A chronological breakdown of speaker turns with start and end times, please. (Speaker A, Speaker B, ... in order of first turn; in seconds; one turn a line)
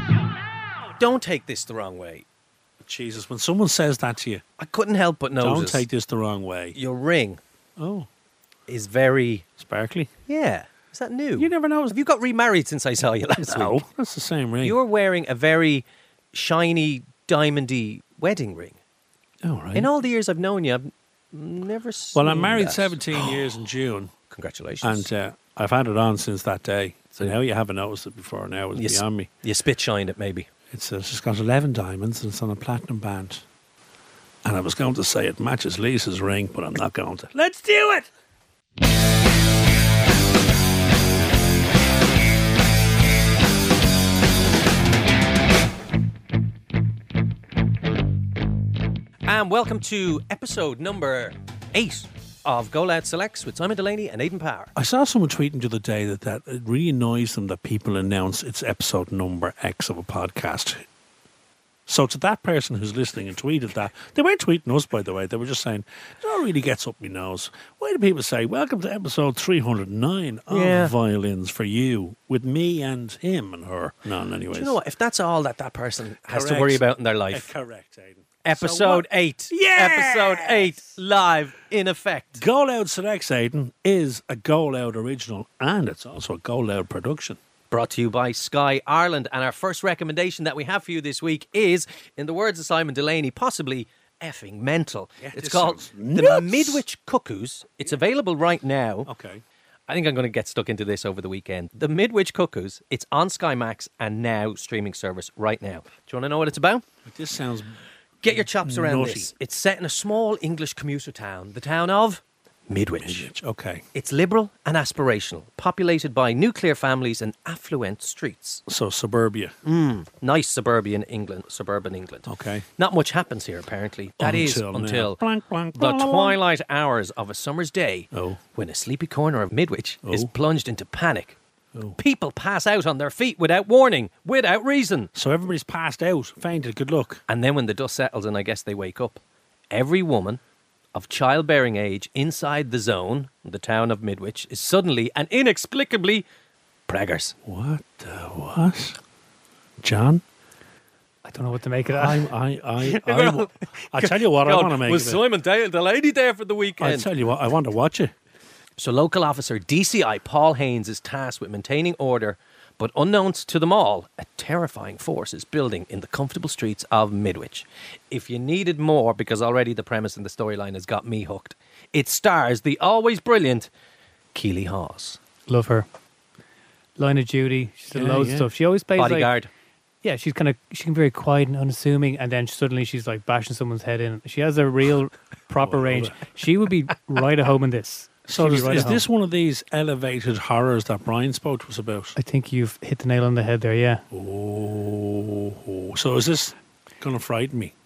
Speaker A: 1.0-2.2
Speaker B: 2.8-4.4
Speaker A: 4.6-5.8
Speaker B: 5.4-6.8
Speaker A: 6.7-7.4
Speaker B: 7.8-8.1
Speaker A: 8.7-9.4
Speaker B: 9.6-10.1
Speaker A: 10.3-13.8
Speaker B: 11.3-12.0
Speaker B: 13.4-14.8
Speaker A: 14.6-18.8
Speaker B: 19.4-19.9
Speaker A: 19.7-23.4
Speaker B: 22.1-24.1
Speaker A: 24.3-25.1
Speaker B: 24.8-29.3
Speaker A: 28.8-30.5
Speaker B: 30.7-33.4
Speaker B: 34.4-38.1
Speaker A: 49.2-54.7
Speaker B: 54.7-60.8
Speaker B: 61.9-74.8
Speaker A: 70.5-70.9
Speaker A: 74.5-77.5
Speaker B: 76.3-80.9
Speaker A: 78.4-82.4
Speaker B: 82.4-87.4
Speaker A: 87.7-99.1
Speaker B: 95.2-96.8
Speaker B: 99.0-99.4
Speaker A: 99.9-106.8
Speaker B: 107.0-109.3
Speaker A: 108.2-113.3
Speaker B: 113.0-113.8
Speaker A: 113.9-118.6
Speaker B: 118.7-119.5
Speaker A: 119.6-125.2
Speaker B: 122.2-122.7
Speaker B: 124.2-126.4
Speaker A: 125.7-131.3
Speaker B: 128.1-128.4
Speaker B: 130.0-130.3
Speaker A: 132.0-135.1
Speaker B: 135.1-137.2
Speaker A: 137.3-139.2
Speaker A: 139.7-140.4
Speaker A: 140.9-146.2
Speaker A: 146.9-147.3
Speaker B: 147.4-149.0
Speaker B: 149.8-150.2
Speaker C: 151.2-152.2
Speaker B: 151.9-155.2
Speaker A: 152.8-157.1
Speaker B: 156.8-158.1
Speaker A: 158.8-173.7
Speaker A: 174.3-175.2
Speaker C: 175.5-175.8
Speaker C: 177.0-179.3
Speaker B: 177.9-178.5
Speaker A: 179.0-179.5
Speaker C: 180.0-189.0
Speaker B: 185.6-186.2
Speaker B: 188.3-192.2
Speaker C: 192.2-194.0
Speaker B: 194.1-197.7